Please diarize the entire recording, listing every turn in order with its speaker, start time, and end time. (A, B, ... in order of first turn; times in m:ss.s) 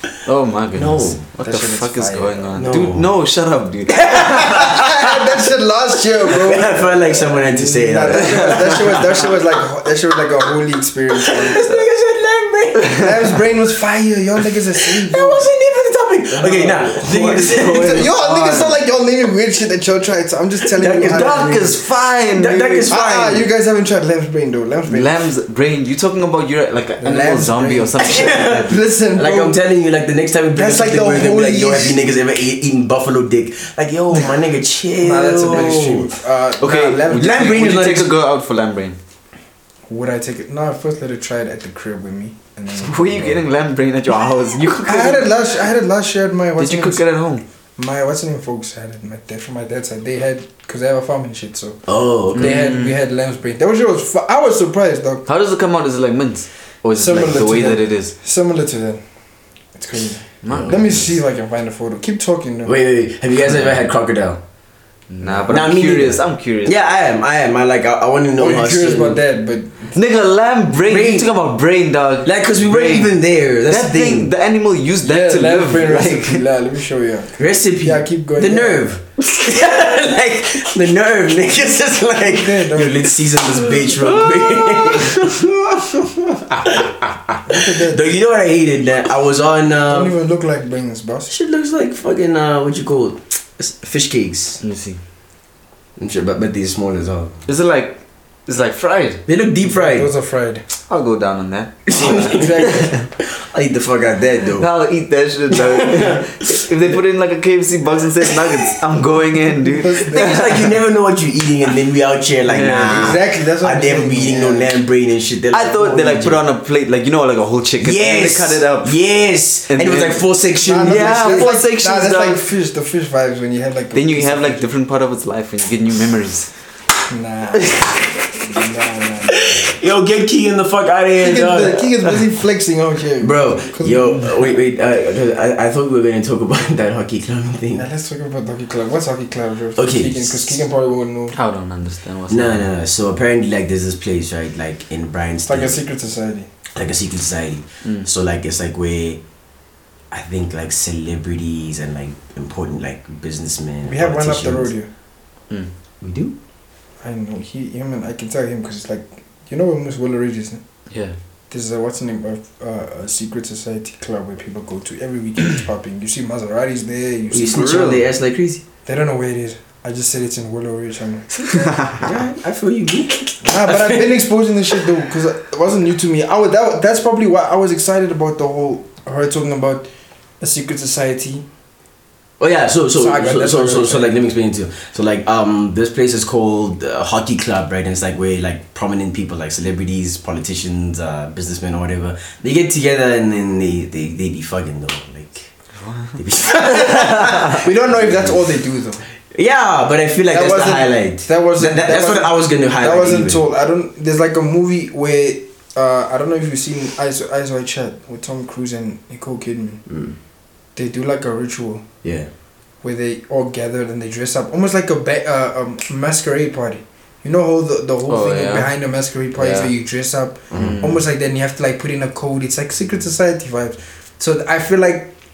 0:00.2-0:04.7 A
0:00.7-0:01.2 B
0:01.4-0:02.6 C
0:02.5-0:03.1 B
0:03.9-0:05.3 B
0:04.5-0:11.7 C
0:06.2-0:09.4 B
0:08.2-0:09.1 A
0:11.1-0:13.3 B
0:12.9-0:15.5 C
0:14.8-0:18.1 B
0:16.3-0:18.8 A
0:17.5-0:21.6 C
0:20.8-0:21.8 B
0:21.0-0:22.9 A
0:22.3-0:23.5 B
0:22.9-0:25.1 C
0:24.9-0:28.8 A
0:27.0-0:29.6 C
0:28.0-0:36.1 B
0:30.6-0:32.0 C
0:35.0-0:37.8 C
0:35.5-0:35.8 A
0:36.6-0:39.0 A
0:37.1-0:38.1 B
0:39.9-0:43.4 C
0:42.8-0:45.3 A
0:44.9-0:47.0 C
0:46.6-0:47.4 A
0:47.8-0:55.2 C
0:51.9-0:52.5 B
0:52.3-0:53.0 A
0:55.3-0:58.1 A
0:57.0-0:59.0 C
0:59.8-1:02.7 C
1:00.4-1:01.2 A
1:02.6-1:04.4 B
1:05.1-1:07.0 A
1:05.5-1:09.2 B
1:08.4-1:10.0 C
1:09.9-1:13.1 A
1:10.9-1:11.3 B
1:12.2-1:14.3 B
1:13.7-1:16.4 A
1:15.0-1:18.9 C
1:17.4-1:26.0 B
1:22.2-1:23.1 C
1:23.8-1:25.3 A
1:26.6-1:30.1 B
1:27.5-1:28.1 C
1:29.9-1:31.3 C
1:31.3-1:34.6 B
1:34.6-1:35.0 A
1:36.0-1:37.4 B
1:37.5-1:39.2 A
1:39.3-1:40.1 B
1:39.6-1:40.7 C
1:40.9-1:43.1 A
1:41.9-1:44.7 B
1:41.9-1:43.0 C
1:44.6-1:50.8 A
1:45.5-1:46.3 B
1:48.3-1:48.7 B
1:49.6-1:50.4 C
1:50.1-1:56.4 B
1:52.5-1:53.2 A
1:52.9-1:54.7 C
1:55.5-1:59.0 A
1:57.8-2:01.6 B
1:59.7-2:00.3 A
2:00.6-2:04.7 C
2:00.8-2:02.5 A
2:03.9-2:06.5 A
2:07.1-2:09.7 C
2:07.6-2:08.0 A
2:09.3-2:12.0 B
2:11.2-2:14.3 C
2:13.2-2:17.8 B
2:17.8-2:21.4 C
2:19.8-2:20.6 B
2:21.3-2:22.7 A
2:22.3-2:25.8 B
2:25.5-2:26.5 C
2:26.7-2:29.2 B
2:30.1-2:34.7 B
2:33.8-2:34.9 C
2:36.0-2:36.4 B
2:37.0-2:40.6 C
2:40.9-2:41.2 A
2:41.5-2:48.0 C
2:47.3-2:48.6 B
2:48.9-2:51.8 C
2:51.5-2:52.1 A
2:52.0-2:54.1 B
2:53.4-2:59.9 C
3:00.4-3:01.5 C
3:02.4-3:15.5 B
3:03.0-3:04.2 C
3:15.8-3:16.2 A
3:16.2-3:18.5 B
3:17.0-3:19.0 C
3:19.3-3:23.4 B
3:20.3-3:29.8 C
3:29.9-3:30.2 B
3:30.8-3:31.9 C
3:32.0-3:32.3 B
3:32.8-3:45.2 C
3:38.1-3:38.7 A
3:39.4-3:39.7 A
3:40.5-3:40.9 B
3:40.5-3:41.0 A